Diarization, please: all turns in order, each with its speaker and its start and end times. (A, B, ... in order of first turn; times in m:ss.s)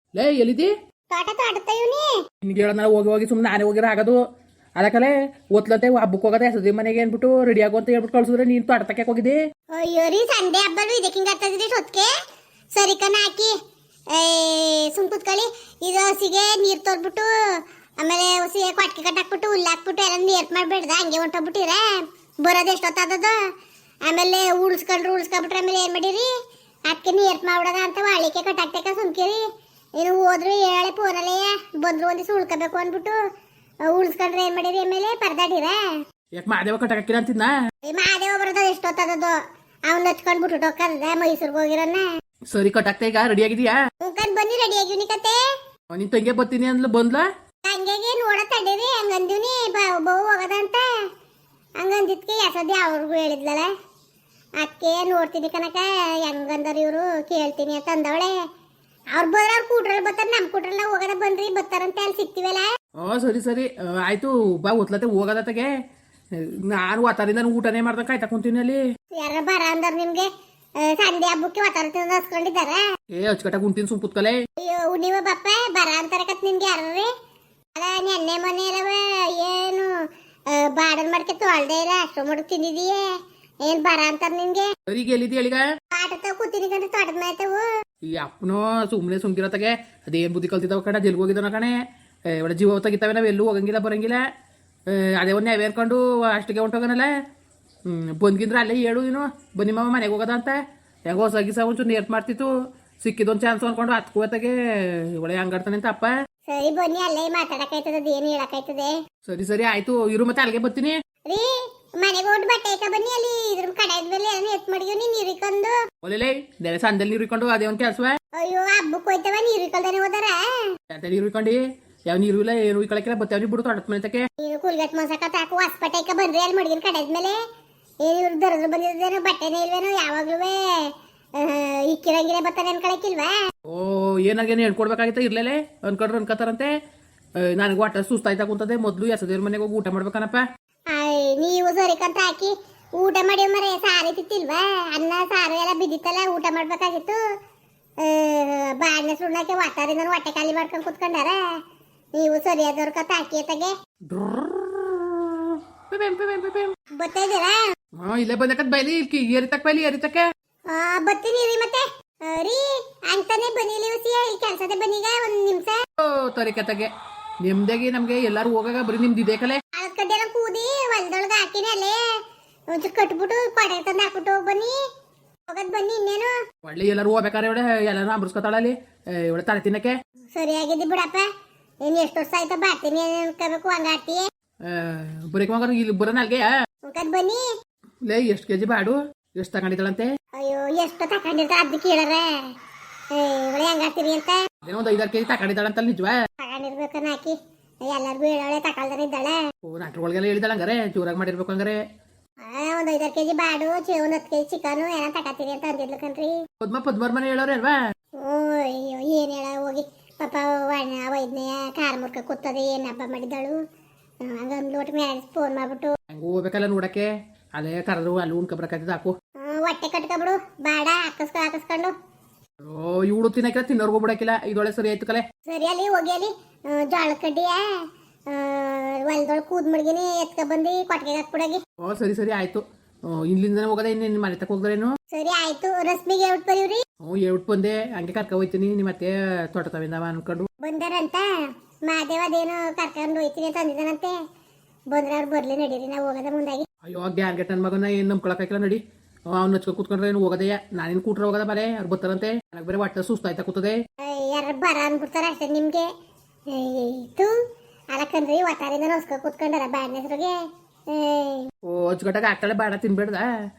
0:00.1-0:00.7 A
0:01.1-0:02.1 B
0:02.4-0:04.2 A
0:04.8-0:09.4 A
0:09.7-0:12.1 B
0:12.7-0:13.6 B
0:14.1-0:17.3 B
0:18.0-0:23.4 B
0:24.1-0:26.3 B
0:26.9-0:29.4 B
0:30.0-0:33.2 B
0:33.9-0:35.8 B
0:36.4-0:37.5 A
0:37.9-0:39.4 B
0:39.9-0:42.1 B
0:42.5-0:43.8 A
0:44.0-0:45.4 B
0:45.9-0:47.3 A
0:47.6-0:50.9 B
0:51.8-0:53.7 B
0:54.6-0:58.3 B
0:59.1-1:02.7 B
1:03.0-1:05.7 A
1:06.4-1:08.8 A
1:09.1-1:12.8 B
1:13.1-1:14.4 A
1:14.6-1:17.1 B
1:17.8-1:20.0 B
1:20.5-1:23.1 B
1:23.6-1:24.7 B
1:24.9-1:25.6 A
1:25.9-1:27.6 B
1:28.0-1:31.8 A
1:32.3-1:34.2 A
1:34.9-1:37.1 A
1:37.9-1:42.5 A
1:43.0-1:46.1 A
1:46.5-1:49.0 B
1:49.2-1:51.0 A
1:51.3-1:55.8 B
1:56.0-1:58.2 A
1:58.4-2:00.7 B
2:00.9-2:04.3 A
2:04.4-2:07.4 B
2:08.0-2:13.3 B
2:13.7-2:16.7 A
2:17.4-2:20.4 A
2:20.9-2:27.2 B
2:28.0-2:31.6 B
2:32.2-2:33.7 B
2:34.1-2:36.7 A
2:37.0-2:37.6 B
2:38.0-2:40.2 A
2:40.7-2:45.8 B
2:46.0-2:46.9 A
2:47.4-2:49.6 A
2:49.8-2:52.0 B
2:52.7-2:54.8 B
2:55.5-2:56.3 B
2:56.6-3:00.0 A
3:00.4-3:01.3 B
3:01.8-3:04.2 B
3:04.7-3:06.5 A
3:06.9-3:07.4 B
3:08.1-3:10.1 A
3:10.4-3:12.3 B
3:13.1-3:14.4 B
3:14.6-3:16.2 A
3:16.4-3:19.4 B
3:19.6-3:21.8 A
3:22.4-3:26.4 B
3:26.6-3:27.8 A
3:28.2-3:33.6 B
3:34.2-3:35.9 B
3:36.1-3:39.1 A
3:39.4-3:41.9 B
3:42.6-3:45.2 A
3:45.5-3:51.6 B
3:51.8-3:55.0 A
3:55.1-3:56.8 B
3:57.0-4:00.5 A
4:00.6-4:04.2 B
4:04.9-4:06.7 B
4:06.8-4:08.8 A
4:09.3-4:13.8 A
4:14.0-4:15.9 B
4:16.5-4:17.4 B
4:17.9-4:20.4 B
4:20.9-4:21.5 B
4:21.6-4:23.3 A